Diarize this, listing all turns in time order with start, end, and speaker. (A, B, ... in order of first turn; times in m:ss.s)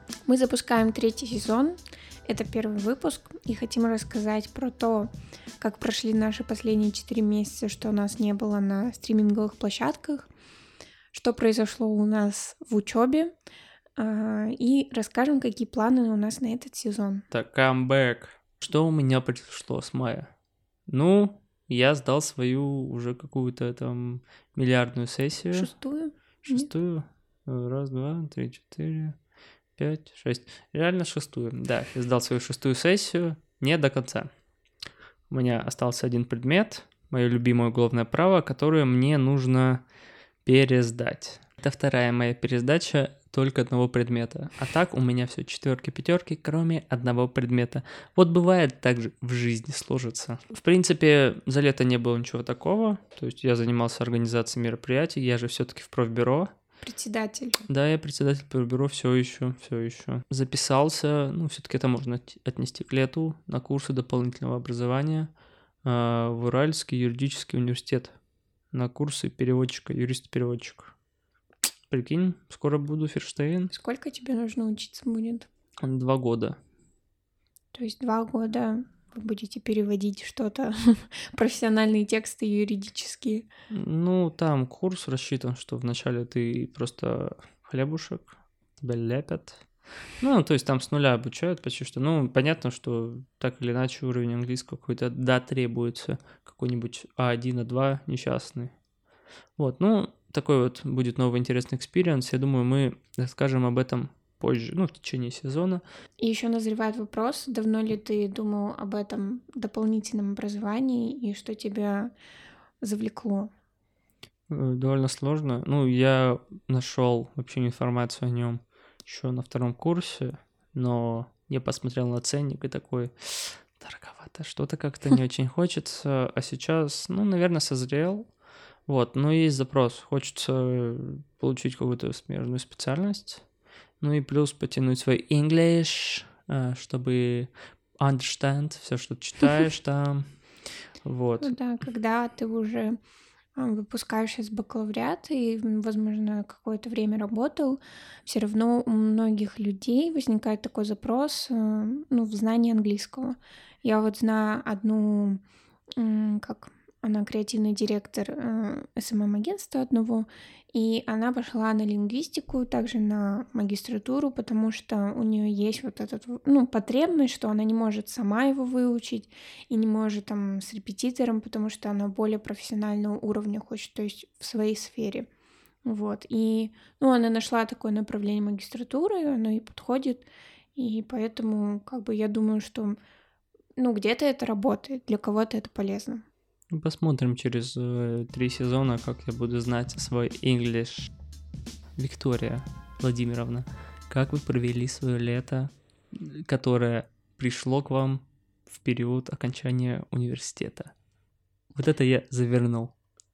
0:00.3-0:10.3 A
0:11.1-0:13.3 A
0:14.0-0:17.3 A
0:17.3-0:20.3 B
0:20.9-0:25.7 B
0:25.5-0:26.7 A
0:26.4-0:29.2 B
0:29.8-0:34.3 B
0:35.3-0:39.8 B
0:40.4-0:56.5 B
0:56.8-0:57.6 A
0:57.7-1:05.3 B
1:05.8-1:08.2 B
1:08.7-1:10.9 B
1:11.9-1:13.7 B
1:13.7-1:15.5 A
1:15.8-1:16.6 B
1:17.7-1:23.5 A
1:23.7-1:29.6 B
1:30.2-1:38.7 B
1:39.6-1:45.8 B
1:46.2-1:52.1 A
1:52.8-1:53.5 A
1:54.5-2:08.3 B
2:08.9-2:13.4 B
2:14.0-2:20.3 B
2:21.0-2:21.5 B
2:21.4-2:23.0 A
2:23.6-2:35.4 A
2:36.0-2:55.3 A
2:55.8-3:03.0 A
3:03.8-3:06.2 A
3:06.7-3:11.1 B
3:12.0-3:20.9 B
3:21.8-3:22.9 B